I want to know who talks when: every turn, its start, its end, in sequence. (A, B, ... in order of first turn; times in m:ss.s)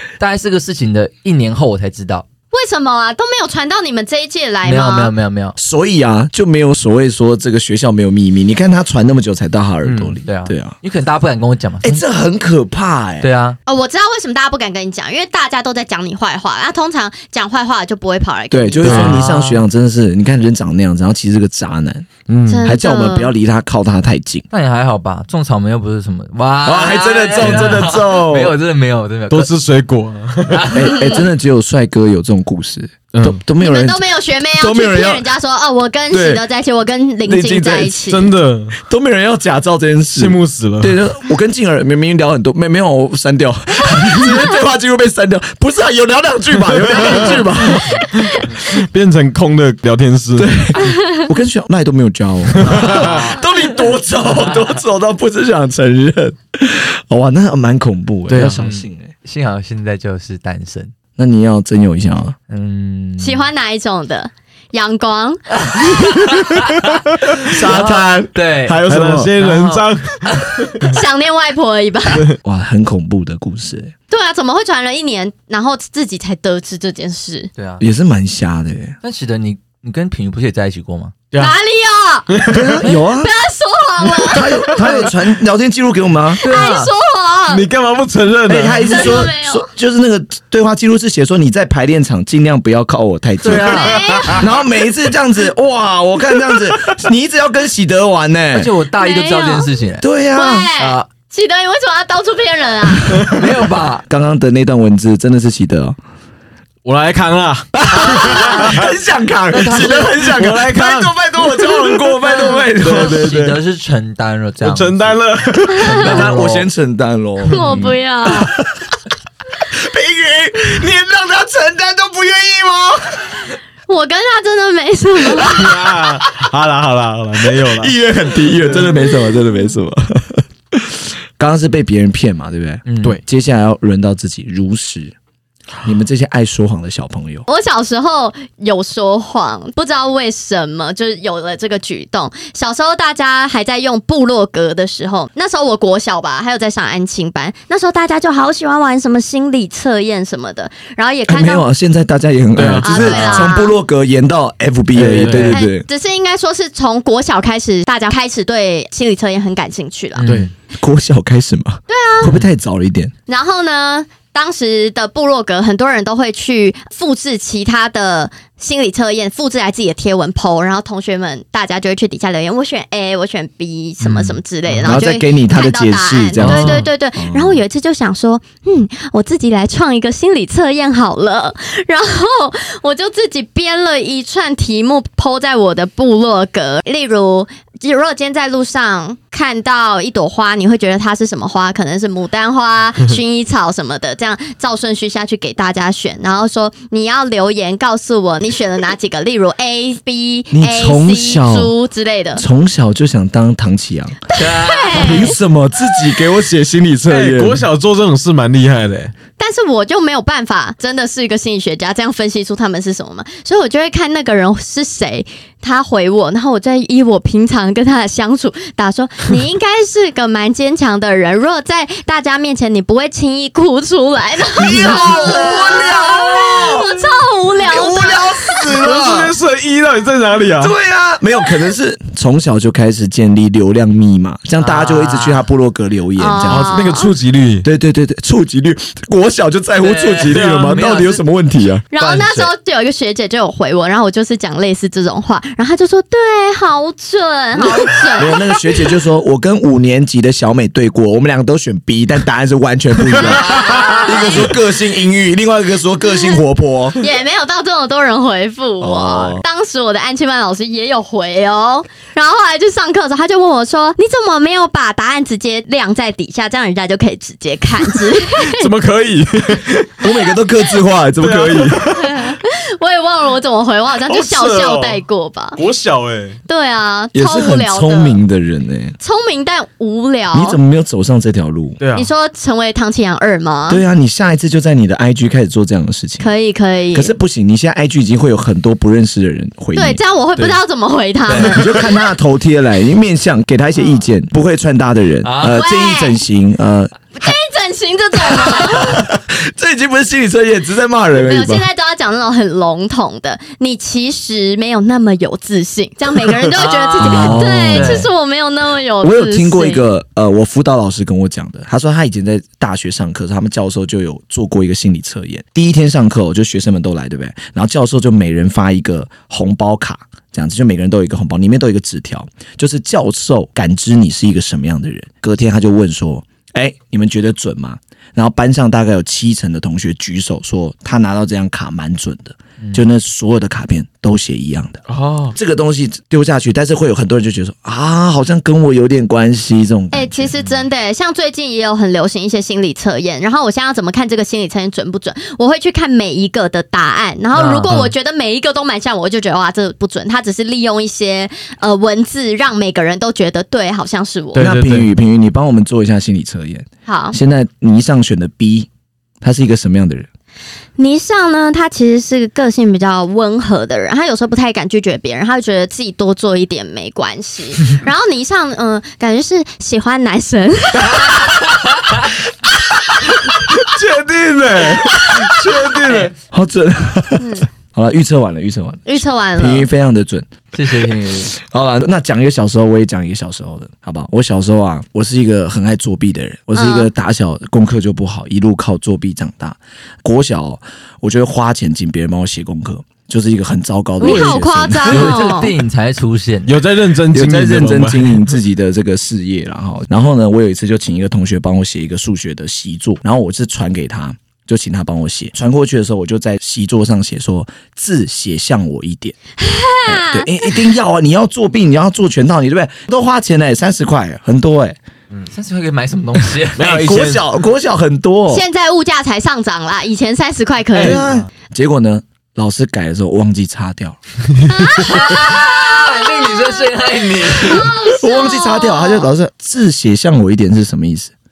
0:00.2-0:02.2 A
0:02.5-0:05.1 B
0:04.6-0:05.6 A
0:05.6-0:10.8 C
0:09.8-0:10.2 D
0:10.2-0:12.0 A
0:11.8-0:13.3 C
0:13.2-0:13.6 A
0:13.7-0:19.1 B
0:18.5-0:22.1 C
0:18.8-0:19.2 D
0:18.9-0:19.6 A
0:22.3-0:22.7 D
0:22.5-0:23.3 B
0:22.6-0:24.4 C
0:24.5-0:29.5 A
0:26.6-0:28.5 C
0:27.4-0:27.8 D
0:29.3-0:30.7 D
0:30.5-0:31.2 A
0:30.7-0:35.3 C
0:33.1-0:33.4 D
0:33.6-0:38.3 B
0:36.1-0:36.4 C
0:37.2-0:38.0 C
0:38.1-0:38.8 D
0:38.8-0:48.0 C
0:40.1-0:41.0 D
0:46.7-0:50.6 D
0:50.4-0:59.1 C
0:52.5-0:53.3 D
0:52.6-0:53.4 A
0:58.3-0:58.6 D
0:58.5-1:00.9 A
1:01.2-1:02.4 C
1:02.5-1:03.5 A
1:03.2-1:06.3 B
1:05.6-1:08.8 A
1:07.4-1:09.3 C
1:08.9-1:10.9 D
1:09.4-1:10.8 A
1:10.8-1:12.3 B
1:12.4-1:13.9 C
1:14.1-1:17.5 B
1:17.6-1:17.8 A
1:17.8-1:19.0 C
1:19.0-1:21.1 A
1:21.4-1:22.3 B
1:22.3-1:22.8 D
1:22.4-1:23.3 C
1:22.8-1:25.0 B
1:24.2-1:26.4 C
1:26.4-1:27.6 B
1:26.4-1:26.9 A
1:27.5-1:29.3 D
1:28.5-1:38.7 C
1:28.9-1:29.7 B
1:33.4-1:34.4 A
1:33.7-1:34.5 B
1:38.5-1:40.0 A
1:39.0-1:39.7 B
1:40.0-1:40.7 C
1:40.3-1:43.3 B
1:40.8-1:41.1 A
1:43.2-1:44.0 A
1:44.1-1:46.0 C
1:46.8-1:48.9 D
1:47.7-1:53.3 C
1:48.1-1:48.8 A
1:49.5-1:50.3 A
1:49.7-1:53.6 D
1:52.8-1:56.7 A
1:54.6-1:56.0 D
1:55.9-1:58.6 C
1:57.5-1:58.5 B
1:59.7-2:03.6 C
2:03.9-2:05.7 B
2:05.4-2:07.9 D
2:07.4-2:15.1 C
2:12.8-2:13.2 A
2:15.8-2:17.4 C
2:17.5-2:31.6 B
2:31.3-2:35.8 C
2:32.6-2:33.5 D
2:32.8-2:33.7 B
2:34.9-2:35.5 D
2:35.0-2:35.5 A
2:35.4-2:40.2 B
2:40.2-2:40.5 A
2:40.2-2:40.5 D
2:40.8-2:43.1 C
2:41.9-2:42.3 B
2:43.3-3:22.4 B
2:54.0-2:54.4 A
2:54.8-2:57.6 C
2:56.4-2:56.8 A
3:20.5-3:21.7 C
3:22.4-3:24.2 C
3:24.3-3:25.3 A
3:24.3-3:25.4 B
3:24.9-3:27.6 C
3:27.1-3:29.1 D
3:29.4-3:48.6 B
3:44.6-3:47.0 C
3:47.6-3:49.3 C
3:48.7-3:50.7 D
3:50.6-3:56.8 C
3:54.6-3:55.5 A
3:56.2-3:57.1 B
3:56.5-3:57.6 D
3:57.6-4:01.8 C
3:59.8-4:01.2 A
4:00.3-4:00.7 D
4:01.9-4:08.5 B
4:02.0-4:02.5 A
4:07.9-4:17.0 C
4:13.5-4:14.5 B
4:13.6-4:13.9 A
4:17.0-4:28.7 B
4:18.8-4:19.4 C
4:28.3-4:30.0 D
4:30.0-4:31.9 C
4:31.2-4:32.4 D
4:32.0-4:35.6 B
4:34.1-4:35.0 D
4:35.6-4:36.4 D
4:36.5-4:38.2 B
4:37.1-4:39.0 C
4:39.0-4:40.6 B
4:40.3-4:41.8 C
4:41.8-4:42.1 D
4:41.9-4:43.8 B
4:43.7-4:46.3 C
4:46.2-4:47.1 B
4:46.9-4:50.0 C
4:49.7-4:51.9 B
4:51.4-4:57.3 C
4:55.2-4:55.6 A
4:55.5-4:56.2 B
4:57.2-4:59.1 B
4:58.3-5:01.6 C
5:01.2-5:09.8 B
5:06.5-5:08.1 A
5:07.0-5:08.1 C
5:09.0-5:40.3 C
5:34.9-5:35.4 D
5:39.9-5:54.5 B
5:47.3-5:47.9 A
5:54.3-5:54.9 D
5:54.4-5:58.7 C
5:56.9-5:57.2 B
5:59.2-6:00.1 C
6:00.8-6:11.3 B
6:13.4-6:16.1 D
6:16.3-6:35.3 C
6:17.2-6:17.5 B
6:18.8-6:19.7 B
6:20.5-6:21.3 A
6:26.5-6:26.9 B
6:34.0-6:35.5 B
6:34.0-6:34.4 D
6:34.8-6:36.6 A
6:36.4-6:38.3 D
6:37.1-6:49.2 C
6:49.4-6:50.5 B
6:49.8-6:54.8 C
6:55.3-6:56.6 A
6:56.5-6:57.2 D
6:56.6-6:58.4 C
6:58.3-7:01.0 B
7:00.8-7:04.0 C
7:01.0-7:01.3 A
7:04.5-7:05.3 B
7:04.8-7:07.7 A
7:07.4-7:09.1 B
7:07.6-7:11.1 C